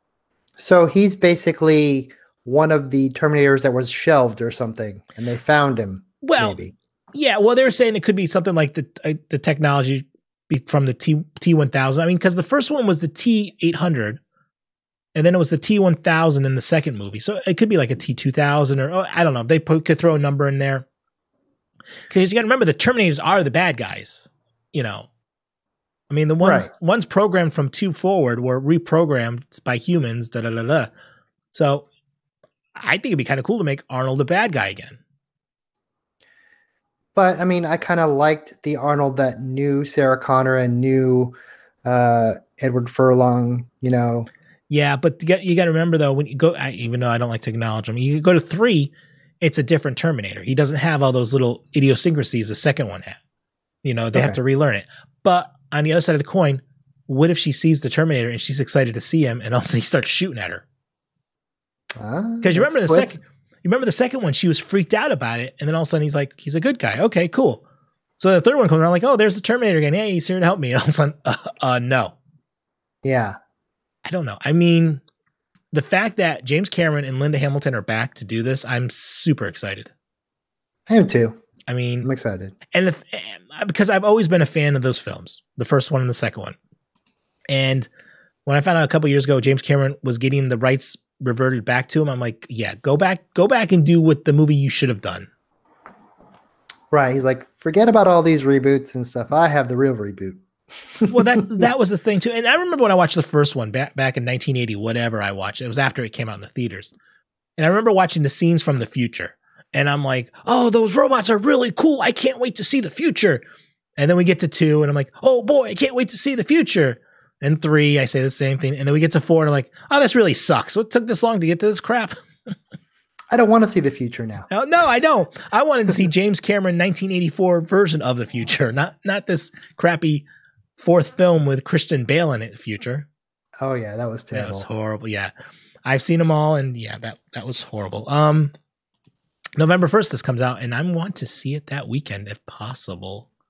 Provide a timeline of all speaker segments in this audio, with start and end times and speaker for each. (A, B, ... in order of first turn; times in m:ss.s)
0:00.6-0:06.7 A
0:06.2-0:06.6 B
0:07.1-0:14.2 B
0:15.1-0:20.8 B
0:22.1-0:25.1 B
0:26.1-0:30.9 B
0:26.4-0:26.7 A
0:31.5-0:31.8 B
0:32.7-0:35.0 B
0:37.1-0:41.3 A
0:41.8-0:44.3 A
0:44.7-0:53.2 B
0:53.8-1:00.6 B
0:54.1-0:54.4 A
1:02.0-1:03.2 A
1:02.4-1:07.6 B
1:08.2-1:12.1 B
1:13.0-1:13.4 A
1:14.0-1:15.0 B
1:15.7-1:19.9 B
1:20.9-1:21.4 A
1:21.6-1:22.1 B
1:22.0-1:22.5 A
1:22.7-1:26.6 B
1:27.5-1:27.9 B
1:28.4-1:35.3 B
1:36.9-1:40.4 A
1:41.0-1:41.7 A
1:41.1-1:46.9 B
1:47.6-1:53.4 B
1:54.0-2:02.5 B
2:03.3-2:04.5 A
2:04.5-2:10.2 B
2:10.8-2:13.1 B
2:13.6-2:14.6 A
2:14.3-2:15.3 B
2:15.8-2:18.5 B
2:19.6-2:23.3 B